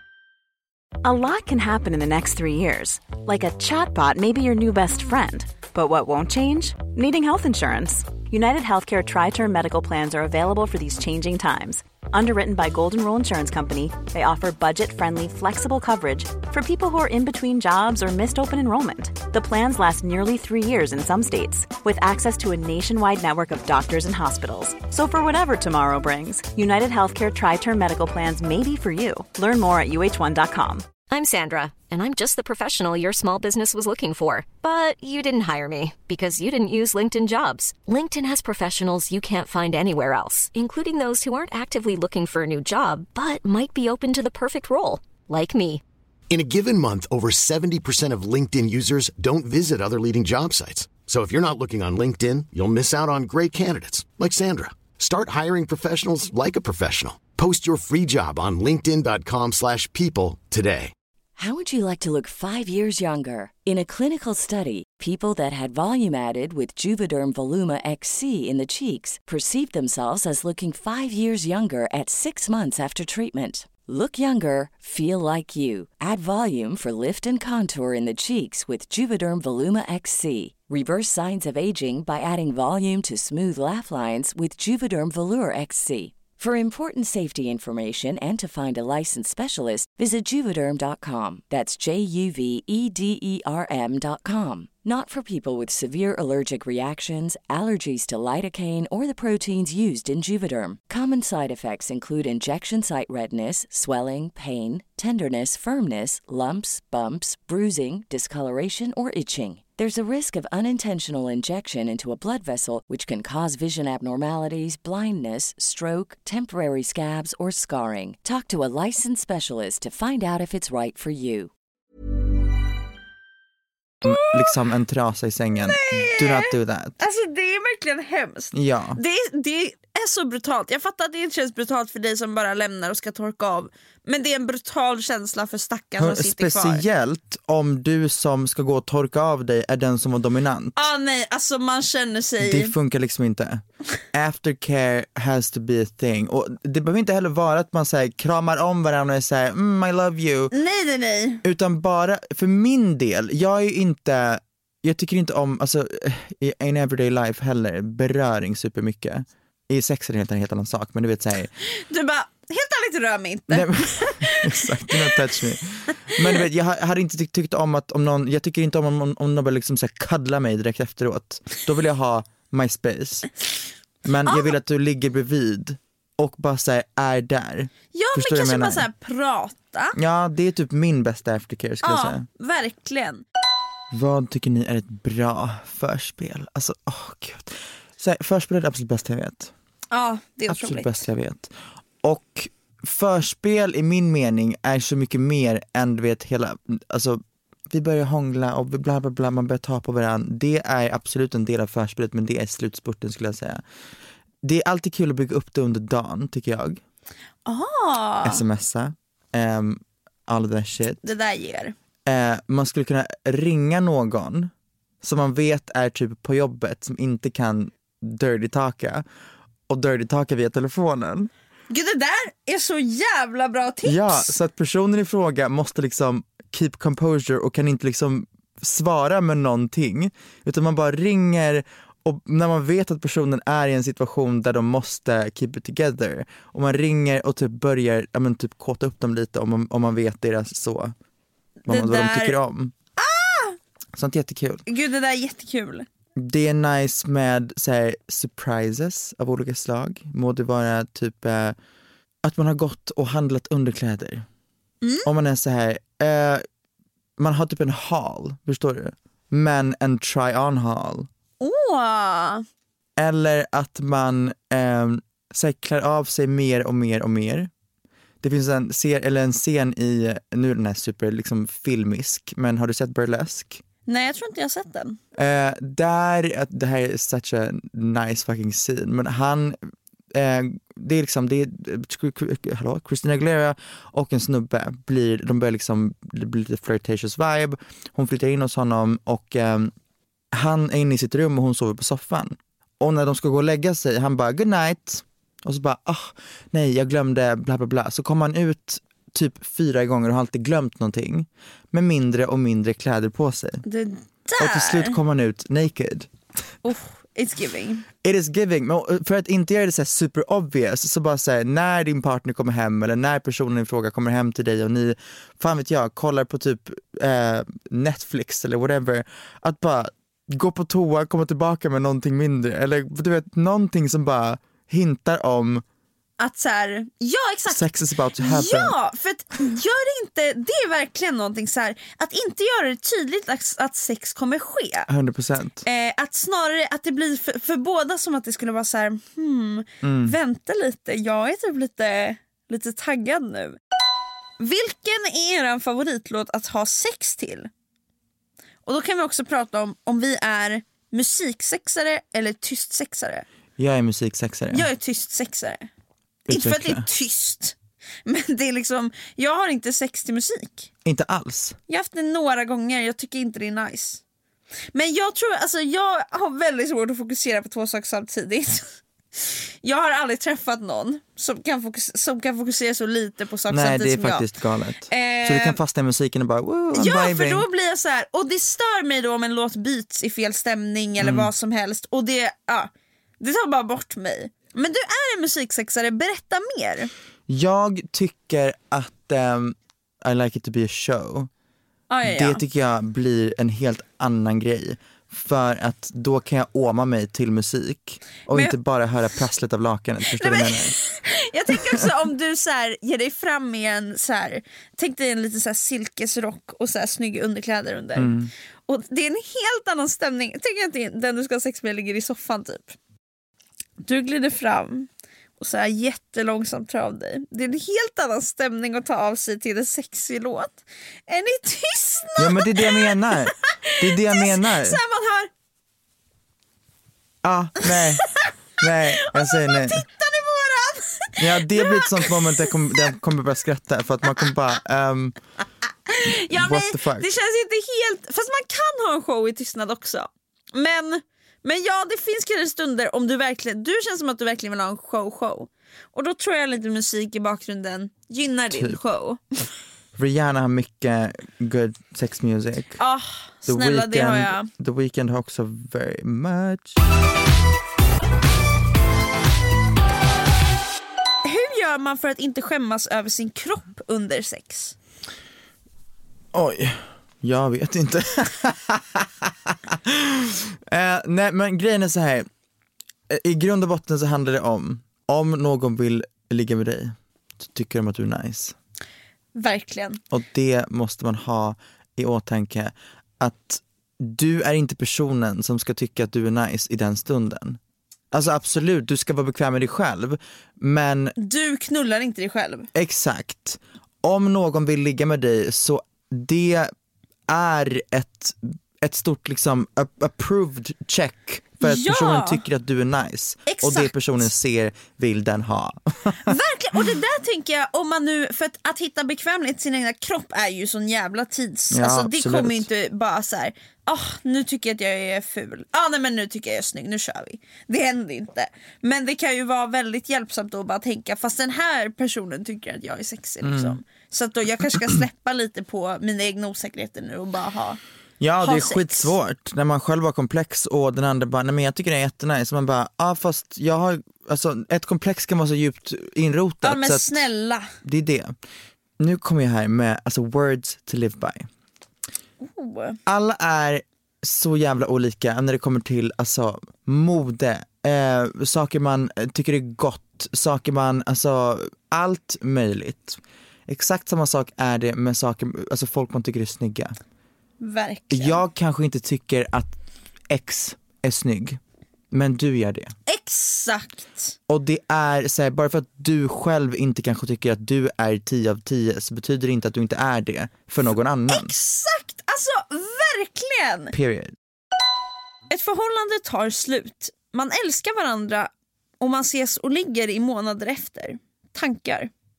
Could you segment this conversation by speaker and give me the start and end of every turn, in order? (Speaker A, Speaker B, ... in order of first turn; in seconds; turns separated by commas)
Speaker A: 1.0-30.9, Speaker B: 31.1-45.8, Speaker C: 46.3-60.9, Speaker D: 61.4-121.5, Speaker E: 124.0-127.0, Speaker F: 124.0-124.5, Speaker F: 125.5-136.8, Speaker E: 128.5-129.0, Speaker E: 136.0-140.9, Speaker F: 140.8-142.7, Speaker E: 142.4-150.5, Speaker F: 150.5-151.4, Speaker E: 151.4-161.5, Speaker F: 161.7-165.3, Speaker E: 163.5-173.3, Speaker E: 174.0-178.8, Speaker F: 174.2-174.5, Speaker F: 177.9-179.9, Speaker E: 179.9-182.2, Speaker F: 181.8-183.2, Speaker E: 183.9-189.5, Speaker F: 189.9-190.9, Speaker E: 190.5-191.5, Speaker E: 192.0-203.6, Speaker E: 204.4-206.8, Speaker F: 207.4-208.4, Speaker E: 208.2-211.0, Speaker F: 211.0-211.7, Speaker E: 212.1-219.1, Speaker E: 219.7-221.3, Speaker F: 221.7-224.3, Speaker E: 223.8-240.9, Speaker F: 241.7-242.4, Speaker E: 241.7-242.7, Speaker F: 243.0-243.6, Speaker E: 243.9-244.6, Speaker F: 244.7-245.9, Speaker E: 246.2-251.6, Speaker E: 252.2-254.2, Speaker F: 254.8-255.1, Speaker E: 255.0-256.4, Speaker E: 257.2-261.1, Speaker F: 261.4-262.4, Speaker E: 263.0-267.5, Speaker E: 268.2-273.6, Speaker F: 273.9-275.0, Speaker E: 275.1-289.7, Speaker E: 290.3-303.6, Speaker F: 303.6-305.0, Speaker E: 304.4-306.1, Speaker F: 306.6-307.8, Speaker E: 308.0-325.6, Speaker F: 326.2-327.6, Speaker E: 327.5-328.7, Speaker F: 328.2-334.9, Speaker E: 334.9-335.6, Speaker F: 335.6-343.6, Speaker E: 339.8-340.2, Speaker F: 344.4-347.5, Speaker F: 348.6-353.2, Speaker E: 353.6-354.7, Speaker F: 354.5-355.7, Speaker E: 356.3-356.8, Speaker F: 356.3-360.7, Speaker E: 360.8-361.6, Speaker F: 361.7-364.0, Speaker F: 364.7-374.3, Speaker E: 373.5-377.4, Speaker F: 374.9-375.6, Speaker F: 376.7-386.9, Speaker E: 381.0-381.3, Speaker E: 387.3-391.3, Speaker F: 391.9-392.4, Speaker E: 392.0-400.7, Speaker F: 398.3-398.5, Speaker F: 400.2-408.1, Speaker E: 407.9-408.3, Speaker F: 408.7-412.8, Speaker F: 413.8-414.9, Speaker F: 415.4-425.3, Speaker E: 422.2-424.8, Speaker E: 427.2-429.9, Speaker F: 427.7-432.6, Speaker E: 431.2-435.2, Speaker F: 435.9-449.2, Speaker E: 436.3-437.1, Speaker E: 448.5-448.8, Speaker E: 450.0-452.8, Speaker F: 452.8-454.5, Speaker E: 453.5-456.8, Speaker F: 461.2-464.8, Speaker E: 466.3-472.3, Speaker E: 473.1-478.5, Speaker F: 479.3-480.0, Speaker E: 480.1-487.6, Speaker E: 488.1-491.1, Speaker F: 491.2-492.7, Speaker E: 492.7-496.7, Speaker E: 497.3-506.4, Speaker F: 501.6-502.4, Speaker F: 503.5-504.0, Speaker F: 506.2-527.8, Speaker E: 511.7-512.6, Speaker E: 523.4-523.8, Speaker E: 528.2-537.2, Speaker F: 528.4-529.1, Speaker F: 536.6-537.7, Speaker E: 537.8-538.3, Speaker E: 539.0-541.5, Speaker F: 542.4-543.0, Speaker E: 543.0-557.0, Speaker F: 557.6-558.4, Speaker E: 558.1-559.7, Speaker E: 560.3-561.6, Speaker E: 562.1-562.9, Speaker F: 563.1-564.3, Speaker E: 564.5-571.5, Speaker F: 571.3-573.9, Speaker E: 573.9-574.4, Speaker F: 575.5-578.5, Speaker F: 579.0-582.1